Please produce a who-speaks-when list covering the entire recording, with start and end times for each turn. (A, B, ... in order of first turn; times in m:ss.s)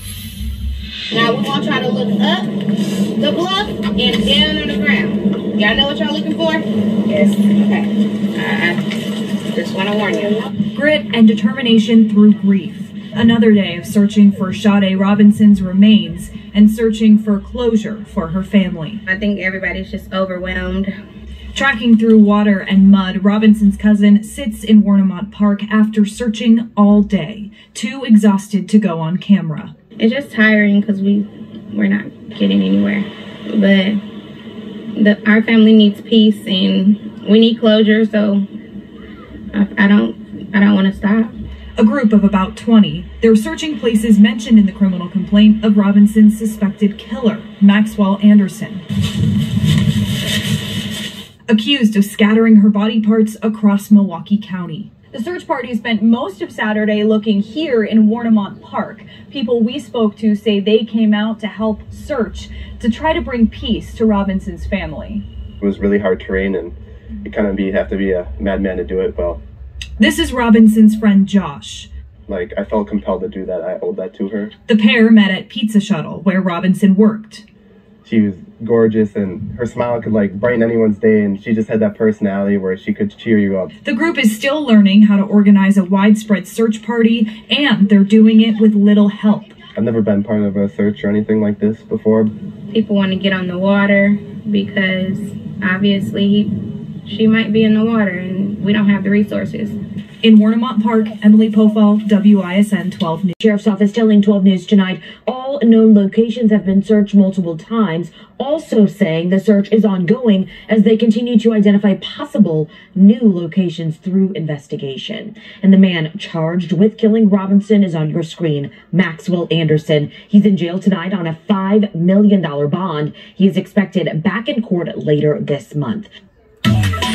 0:01.1-0:02.4 A
0:03.2-0:07.9 A
0:08.4-0:08.8 A
0:09.5-0:10.2 A
0:10.7-0:19.0 B
0:19.1-0:20.9 A
0:21.5-0:29.8 B
0:30.1-0:31.2 A
0:31.8-0:34.0 A
0:35.0-0:38.4 A
0:39.6-0:41.3 A
0:41.8-0:48.8 B
0:51.5-1:05.2 B
1:05.6-1:09.4 C
1:10.0-1:11.9 B
1:12.3-1:14.5 C
1:14.7-1:17.4 B
1:18.0-1:23.7 C
1:23.8-1:29.5 B
1:29.8-1:32.3 C
1:32.7-1:35.2 A
1:35.7-1:36.4 A
1:37.1-1:39.6 A
1:40.2-1:43.4 B
1:43.4-2:06.1 D